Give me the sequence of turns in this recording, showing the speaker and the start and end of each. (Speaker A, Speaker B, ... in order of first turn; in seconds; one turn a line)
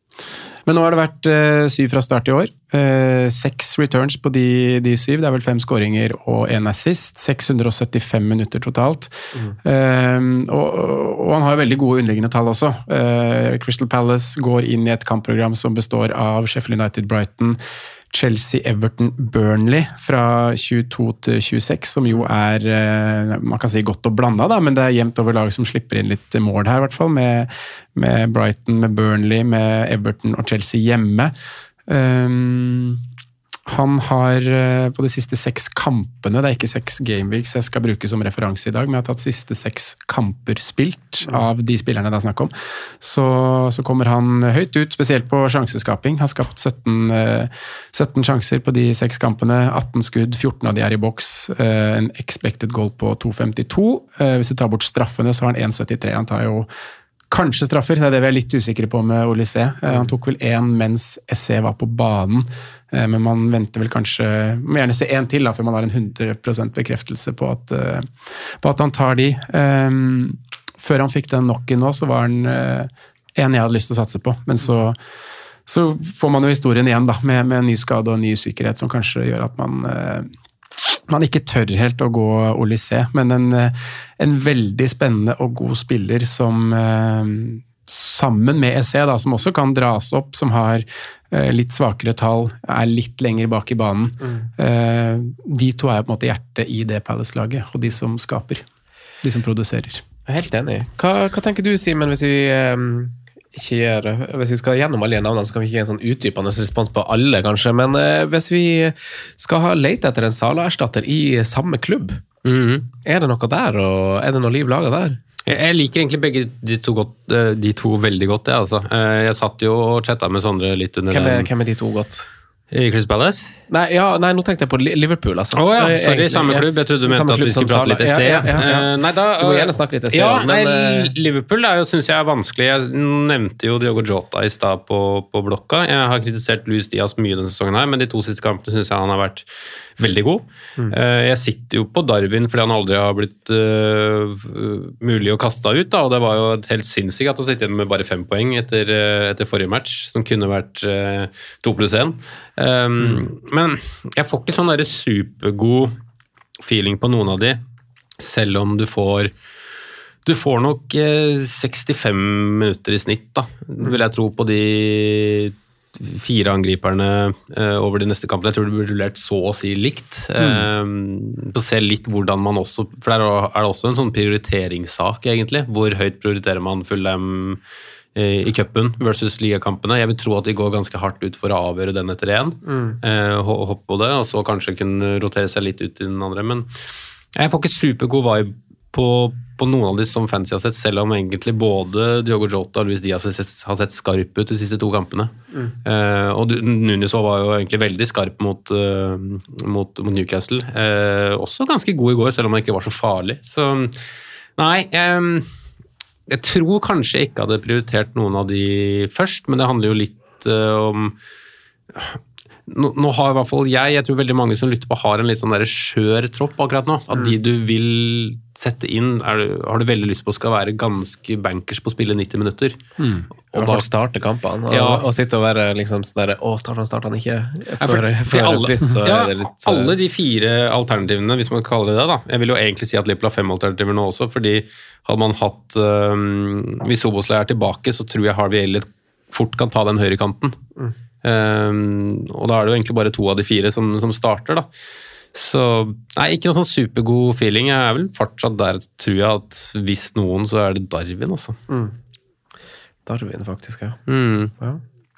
Speaker A: 0.2-17.6
Speaker A: 18.1-31.3
Speaker A: 31.9-33.0
Speaker A: 33.7-56.7
Speaker A: 57.3-75.0
Speaker A: 75.7-80.3
Speaker A: 81.1-98.6
Speaker B: 94.2-94.5
Speaker A: 99.2-100.0
Speaker B: 100.3-112.2
Speaker C: 112.5-112.9
Speaker B: 113.0-115.2
Speaker C: 115.5-121.5
Speaker B: 121.1-122.3
Speaker C: 122.7-123.5
Speaker B: 123.7-128.8
Speaker C: 125.5-139.5
Speaker A: 128.6-128.8
Speaker B: 129.4-131.1
Speaker C: 140.0-156.0
Speaker C: 156.6-157.6
Speaker C: 158.2-159.3
Speaker C: 160.2-177.6
Speaker A: 170.4-170.7
Speaker C: 178.2-186.7
Speaker B: 182.7-183.0
Speaker C: 187.3-204.0
Speaker C: 204.6-205.5
Speaker C: 206.3-211.2
Speaker C: 211.9-222.8
Speaker A: 223.0-223.3
Speaker C: 223.5-223.9
Speaker B: 223.5-229.9
Speaker C: 224.7-225.1
Speaker C: 227.8-240.6
Speaker C: 241.2-244.7
Speaker C: 245.3-251.6
Speaker B: 251.7-251.9
Speaker B: 253.1-254.0
Speaker C: 254.1-254.6